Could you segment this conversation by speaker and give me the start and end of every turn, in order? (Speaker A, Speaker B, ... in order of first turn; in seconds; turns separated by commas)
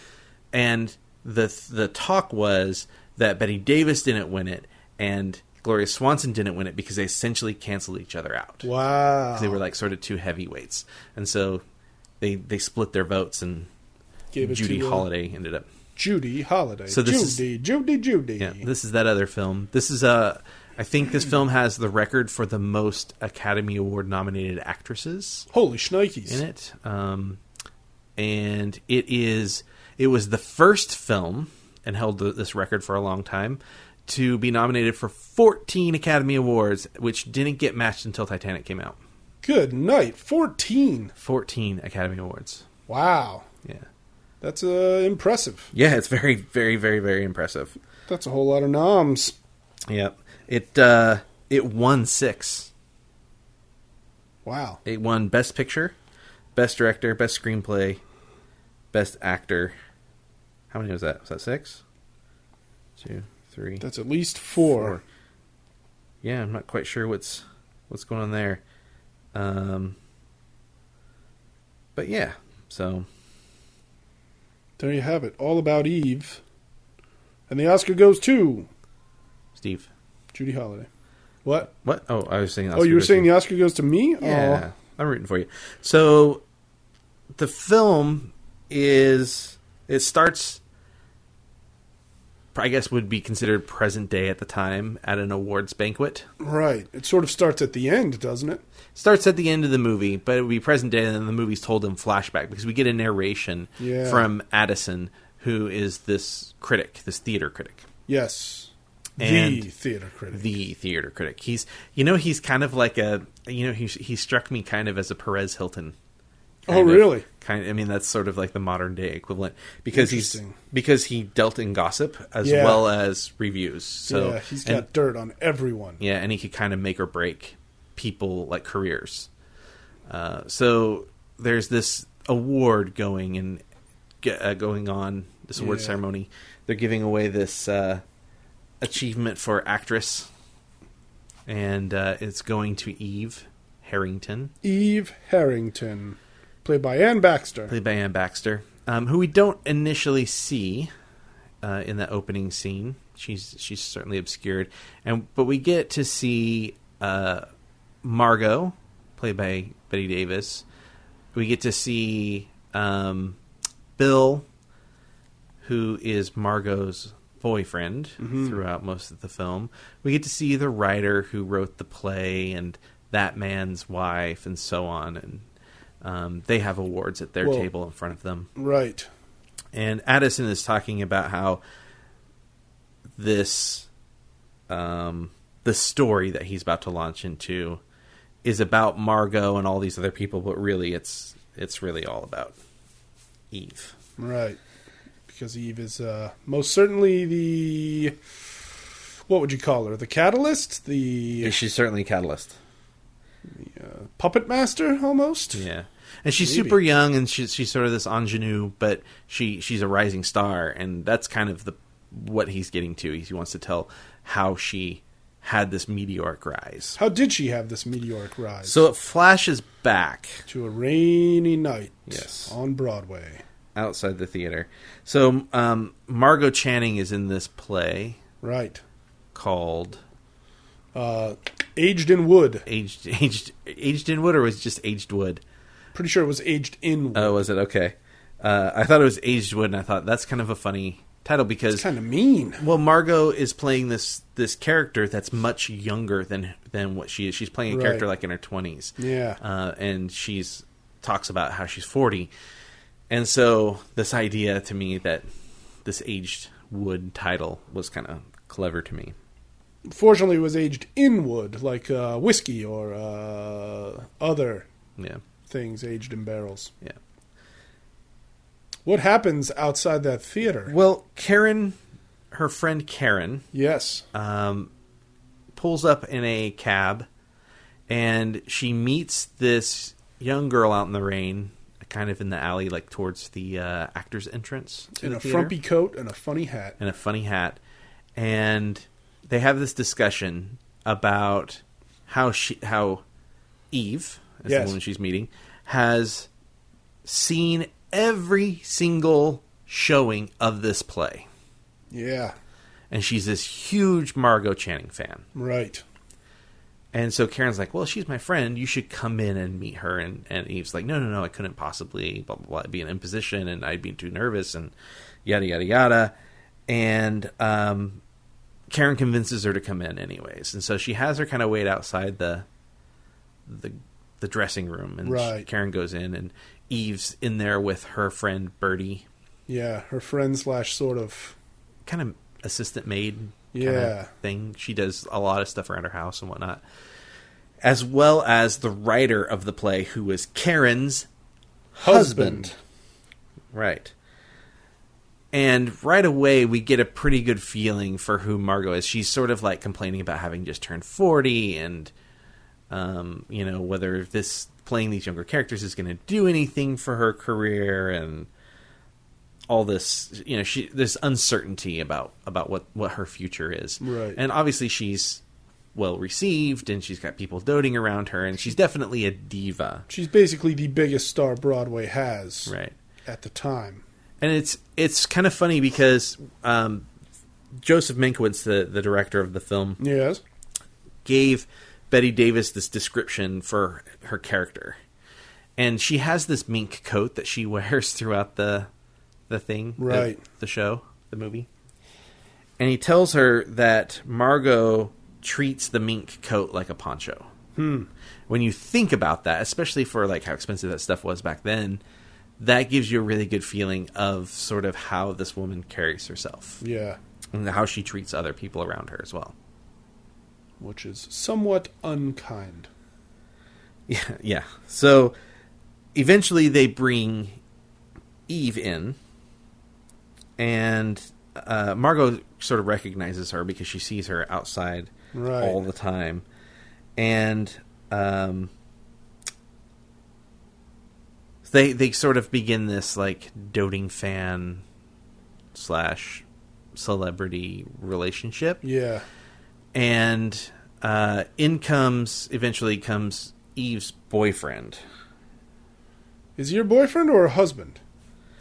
Speaker A: 0.5-8.7, Speaker B: 8.6-9.6, Speaker A: 9.3-11.6, Speaker A: 12.2-13.7, Speaker B: 14.3-15.1, Speaker A: 14.4-15.7, Speaker B: 15.9-18.7, Speaker A: 16.9-17.4, Speaker A: 18.4-25.5, Speaker B: 25.5-26.4, Speaker A: 26.3-27.4, Speaker A: 28.2-39.0, Speaker B: 39.4-41.1, Speaker A: 41.2-42.6, Speaker B: 42.9-43.5, Speaker B: 44.4-45.7, Speaker A: 45.7-47.7, Speaker B: 48.1-49.3, Speaker A: 49.9-52.7, Speaker B: 54.4-54.8, Speaker A: 54.8-55.9, Speaker A: 56.5-58.0, Speaker A: 58.9-59.8, Speaker A: 60.7-61.8, Speaker A: 63.0-63.8, Speaker B: 63.8-65.0, Speaker A: 64.6-65.0, Speaker A: 66.2-68.6, Speaker A: 69.3-70.0, Speaker A: 72.0-73.1, Speaker B: 74.8-76.4, Speaker B: 77.5-78.7, Speaker A: 79.5-79.9, Speaker B: 80.3-80.9, Speaker A: 81.6-83.3, Speaker B: 82.7-84.7, Speaker A: 84.2-86.4, Speaker A: 87.3-90.6, Speaker A: 92.5-96.3, Speaker B: 96.4-98.6, Speaker A: 98.9-107.8, Speaker B: 103.8-104.3, Speaker B: 108.1-110.5, Speaker A: 109.2-109.7, Speaker A: 110.3-116.0, Speaker B: 116.7-117.2, Speaker A: 116.7-124.8, Speaker B: 119.9-120.6, Speaker B: 122.4-122.8, Speaker B: 124.0-126.0, Speaker A: 126.0-129.3, Speaker A: 130.1-133.6, Speaker A: 134.2-138.0, Speaker B: 135.6-136.0, Speaker A: 138.8-140.3, Speaker A: 141.5-144.5, Speaker B: 144.6-147.7, Speaker A: 147.7-150.9, Speaker A: 151.6-157.4, Speaker A: 158.0-160.6, Speaker A: 161.3-163.4, Speaker A: 164.0-164.4, Speaker A: 165.6-175.4, Speaker B: 168.2-168.6, Speaker A: 176.0-178.5, Speaker B: 177.4-177.7, Speaker B: 178.6-179.1, Speaker A: 179.7-181.6, Speaker A: 183.2-183.9, Speaker A: 184.7-187.8, Speaker A: 188.4-192.5, Speaker A: 193.5-193.9, Speaker B: 194.2-194.6, Speaker B: 195.3-198.2, Speaker B: 199.3-201.6, Speaker A: 201.4-202.5, Speaker B: 203.5-205.6, Speaker A: 205.5-217.0, Speaker B: 206.4-206.8, Speaker B: 217.0-218.8, Speaker A: 218.6-220.4, Speaker B: 220.5-223.4, Speaker A: 222.1-222.5, Speaker A: 223.7-228.2, Speaker B: 228.4-228.8, Speaker A: 229.3-230.0, Speaker B: 230.9-232.6, Speaker A: 232.7-235.4, Speaker B: 235.9-237.4, Speaker A: 237.1-241.8, Speaker B: 241.7-242.6, Speaker A: 242.6-252.3, Speaker B: 247.7-248.0, Speaker B: 249.0-249.4, Speaker A: 253.1-255.2, Speaker A: 255.8-259.1, Speaker B: 259.9-264.7, Speaker B: 265.5-266.7, Speaker B: 268.9-270.7, Speaker A: 270.6-271.8, Speaker A: 272.3-273.4, Speaker B: 273.5-274.0, Speaker A: 274.1-274.7, Speaker A: 275.5-277.1, Speaker A: 277.9-285.6, Speaker B: 284.9-286.8, Speaker A: 286.8-287.6, Speaker A: 288.1-293.0, Speaker A: 293.7-296.3, Speaker B: 294.4-294.8, Speaker A: 297.0-301.3, Speaker B: 301.9-302.3, Speaker A: 302.9-305.2, Speaker B: 305.3-305.8, Speaker A: 306.9-314.7, Speaker A: 315.2-316.1, Speaker A: 316.7-318.0, Speaker A: 318.7-322.4, Speaker A: 323.4-329.0, Speaker B: 325.0-325.5, Speaker B: 329.5-331.4, Speaker A: 331.9-336.6, Speaker B: 333.5-334.1, Speaker A: 337.6-341.1, Speaker A: 341.7-342.5, Speaker B: 341.8-342.5, Speaker A: 343.5-343.9, Speaker A: 345.3-351.9, Speaker A: 352.7-358.3, Speaker A: 359.5-365.2, Speaker B: 363.8-364.2, Speaker A: 365.7-369.8, Speaker B: 369.9-372.5, Speaker A: 372.4-372.8, Speaker B: 373.1-373.8, Speaker A: 374.2-376.9, Speaker A: 377.6-379.8, Speaker B: 379.8-380.2, Speaker A: 381.0-384.8, Speaker A: 385.6-388.7, Speaker A: 389.3-391.5, Speaker B: 389.8-390.2, Speaker A: 392.6-397.3, Speaker B: 397.6-397.9, Speaker A: 398.3-401.8, Speaker A: 402.4-406.6, Speaker B: 406.6-407.0, Speaker A: 407.3-409.3, Speaker B: 410.6-412.7, Speaker A: 413.9-415.1, Speaker A: 415.9-417.4, Speaker A: 418.3-419.0, Speaker A: 420.4-426.2, Speaker B: 425.1-425.6, Speaker A: 426.9-428.5, Speaker A: 431.4-434.6, Speaker A: 435.5-438.6, Speaker B: 438.6-439.0, Speaker A: 439.7-444.8, Speaker B: 446.4-447.8